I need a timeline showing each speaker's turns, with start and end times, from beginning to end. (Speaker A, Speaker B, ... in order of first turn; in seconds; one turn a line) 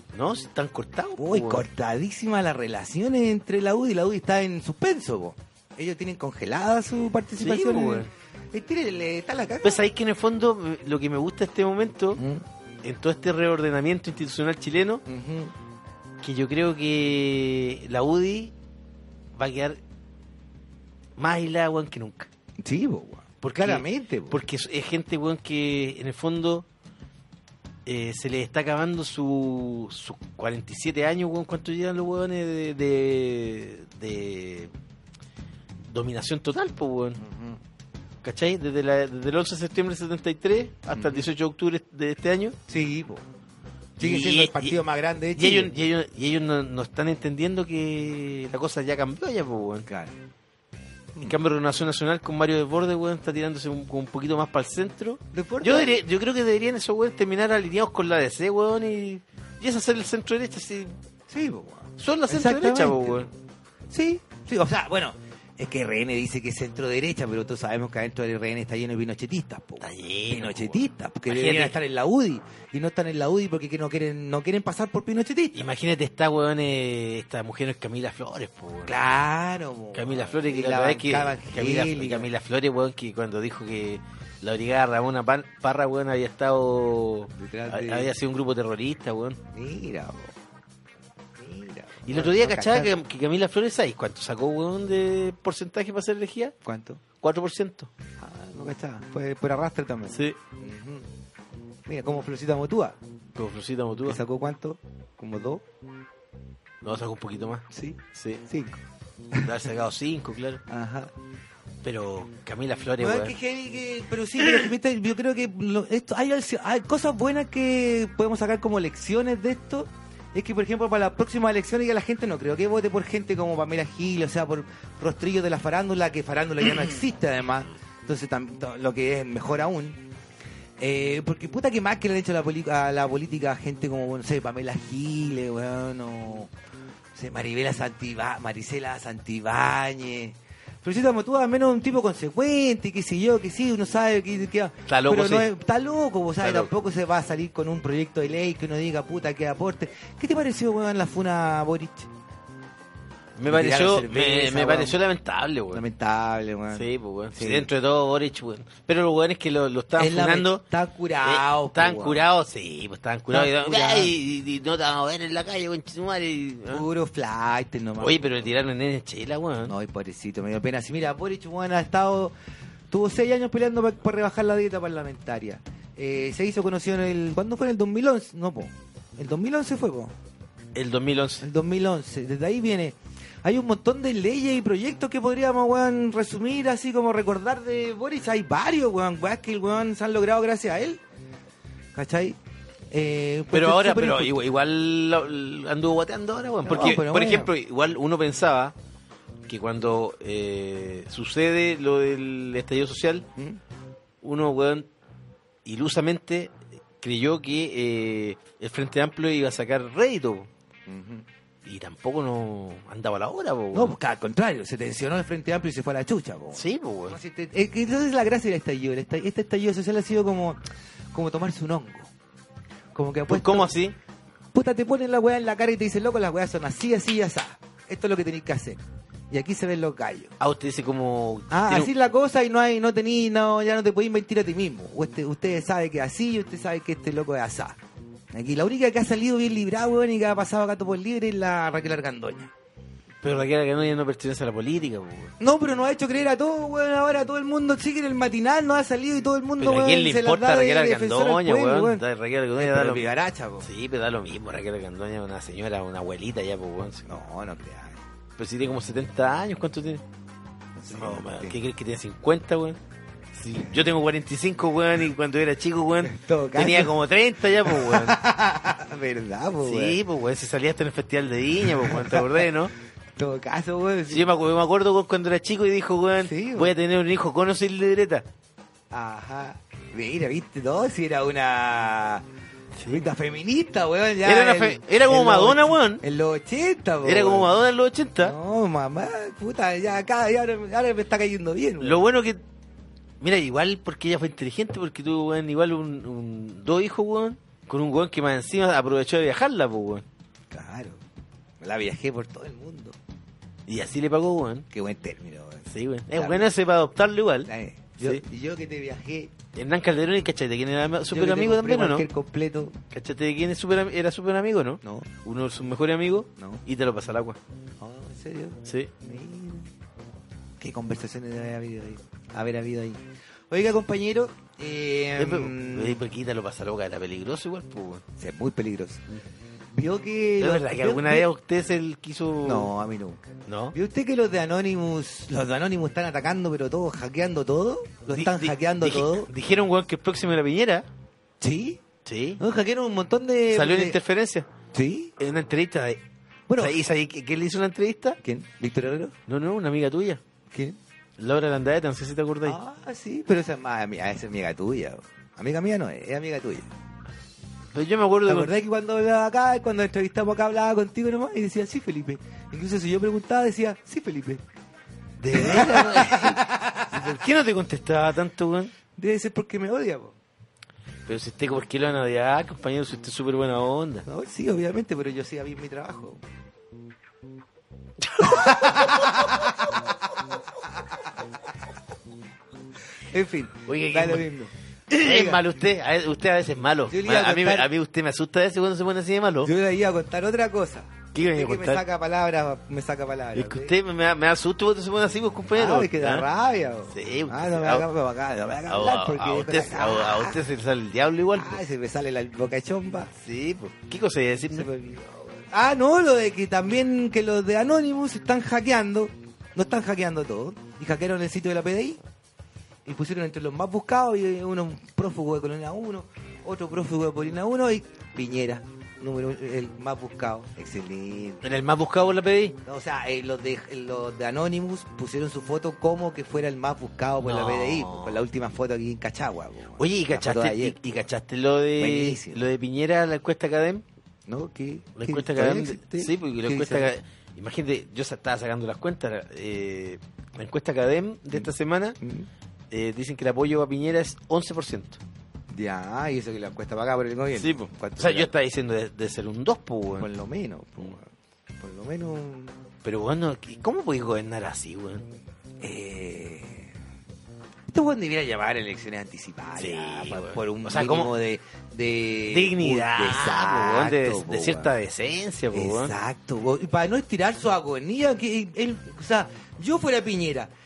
Speaker A: 0.1-1.6
Speaker B: 1.2-9.8
Speaker A: 7.4-8.1
Speaker A: 9.6-12.2
Speaker B: 12.2-12.4
Speaker A: 12.8-15.0
Speaker B: 15.1-15.5
Speaker A: 16.2-18.5
Speaker A: 19.4-19.8
Speaker A: 21.2-22.3
Speaker B: 22.6-24.4
Speaker A: 23.4-26.6
Speaker A: 27.9-34.7
Speaker A: 35.8-37.2
Speaker B: 37.2-37.6
Speaker A: 38.2-42.5
Speaker B: 40.9-41.2
Speaker B: 42.7-43.2
Speaker B: 44.0-45.7
Speaker A: 44.0-44.8
Speaker A: 45.3-49.9
Speaker B: 49.9-50.1
Speaker A: 51.2-61.0
Speaker B: 55.3-56.0
Speaker B: 61.3-63.3
Speaker A: 62.0-63.3
Speaker B: 63.9-75.7
Speaker A: 69.8-71.7
Speaker A: 75.5-78.9
Speaker B: 78.8-82.3
Speaker A: 79.9-89.4
Speaker B: 87.3-88.1
Speaker B: 89.5-90.3
Speaker B: 91.4-93.0
Speaker A: 92.0-96.5
Speaker B: 96.6-97.0
Speaker A: 97.2-97.9
Speaker B: 98.2-101.1
Speaker A: 100.1-100.4
Speaker B: 101.8-103.0
Speaker A: 103.3-104.2
Speaker B: 104.0-105.6
Speaker A: 106.8-108.4
Speaker B: 107.7-109.5
Speaker A: 109.4-110.6
Speaker B: 110.7-111.1
Speaker A: 111.8-113.3
Speaker B: 113.0-130.1
Speaker B: 130.8-136.5
Speaker B: 137.1-152.1
Speaker A: 144.9-145.5
Speaker A: 146.4-146.7
Speaker A: 153.4-155.8
Speaker B: 153.5-155.0
Speaker B: 155.7-157.7
Speaker A: 156.7-160.6
Speaker B: 159.9-162.2
Speaker A: 161.2-166.8
Speaker B: 163.3-164.1
Speaker B: 166.7-168.3
Speaker A: 168.0-169.7
Speaker B: 169.7-172.3
Speaker B: 172.9-180.1
Speaker A: 180.7-181.5
Speaker B: 181.4-191.0
Speaker B: 191.9-192.4
Speaker B: 192.9-194.4
Speaker A: 193.5-198.7
Speaker B: 196.6-197.5
Speaker A: 199.5-203.2
Speaker A: 204.2-204.9
Speaker A: 205.6-210.5
Speaker B: 210.9-211.2
Speaker A: 211.6-213.9
Speaker B: 213.7-220.6
Speaker A: 216.5-217.2
Speaker B: 221.1-222.1
Speaker B: 222.9-223.7
Speaker A: 223.3-223.9
Speaker B: 224.5-230.3
Speaker A: 230.4-231.9
Speaker B: 231.5-237.8
Speaker B: 238.3-242.5
Speaker A: 243.2-245.3
Speaker B: 245.4-252.0
Speaker A: 249.6-253.1
Speaker B: 252.6-253.7
Speaker A: 253.6-257.1
Speaker B: 257.1-258.0
Speaker A: 258.4-260.0
Speaker B: 260.8-261.6
Speaker A: 260.9-262.8
Speaker A: 263.3-268.2
Speaker B: 266.0-267.0
Speaker B: 267.6-270.0
Speaker A: 269.6-272.7
Speaker B: 271.7-272.4
Speaker B: 273.1-274.3
Speaker A: 274.1-278.2
Speaker B: 276.2-276.7
Speaker B: 278.9-282.2
Speaker A: 282.8-283.0
Speaker B: 282.9-287.5
Speaker A: 284.2-286.0
Speaker A: 287.0-288.3
Speaker B: 288.2-292.0
Speaker A: 291.8-292.4
Speaker A: 293.2-300.1
Speaker B: 300.5-301.0
Speaker B: 301.6-302.9
Speaker A: 303.7-304.6
Speaker B: 304.7-306.5
Speaker A: 305.7-308.2
Speaker B: 307.4-309.3
Speaker A: 309.5-312.1
Speaker B: 311.1-312.8
Speaker A: 312.9-317.4
Speaker B: 314.8-315.1
Speaker B: 316.4-316.6
Speaker B: 317.8-319.7
Speaker A: 318.6-318.9
Speaker B: 320.6-326.0
Speaker A: 325.2-328.0
Speaker B: 328.2-329.0
Speaker B: 329.7-331.3
Speaker A: 330.4-332.7
Speaker B: 332.4-339.3
Speaker A: 333.4-333.7
Speaker A: 338.1-340.9
Speaker B: 341.4-341.8
Speaker A: 342.0-342.4
Speaker B: 342.4-344.0
Speaker A: 343.5-344.5
Speaker B: 344.7-345.1
Speaker A: 345.2-346.0
Speaker B: 346.5-346.8
Speaker A: 346.6-348.2
Speaker B: 348.2-349.1
Speaker A: 349.3-350.2
Speaker B: 350.5-350.8
Speaker A: 351.2-352.6
Speaker B: 352.4-356.7
Speaker A: 357.7-358.5
Speaker B: 358.2-364.4
Speaker A: 365.2-368.7
Speaker B: 365.3-367.2
Speaker B: 369.0-370.1
Speaker A: 371.1-374.1
Speaker B: 374.1-376.2
Speaker A: 378.1-379.3
Speaker B: 378.2-379.8
Speaker B: 383.1-385.4
Speaker A: 383.6-384.2
Speaker A: 384.9-389.5
Speaker B: 386.9-387.7
Speaker B: 389.4-393.7
Speaker A: 391.1-391.8
Speaker A: 393.3-396.2
Speaker B: 395.5-400.4
Speaker A: 396.9-397.9
Speaker A: 398.7-401.6
Speaker B: 401.3-403.1
Speaker A: 403.2-404.7
Speaker B: 404.5-412.0
Speaker B: 412.8-421.4
Speaker A: 421.4-422.6
Speaker B: 422.6-431.0
Speaker A: 427.2-428.2
Speaker A: 429.8-433.8
Speaker B: 431.8-432.4
Speaker B: 434.3-436.9
Speaker A: 435.0-442.0
Speaker B: 442.0-442.3
Speaker A: 442.7-445.0
Speaker B: 445.5-448.3
Speaker A: 447.3-450.1
Speaker B: 449.9-451.0
Speaker B: 451.6-452.6
Speaker A: 452.8-455.1
Speaker B: 455.6-456.7
Speaker B: 457.7-464.7
Speaker A: 459.6-461.1
Speaker A: 462.3-465.9
Speaker B: 465.5-470.5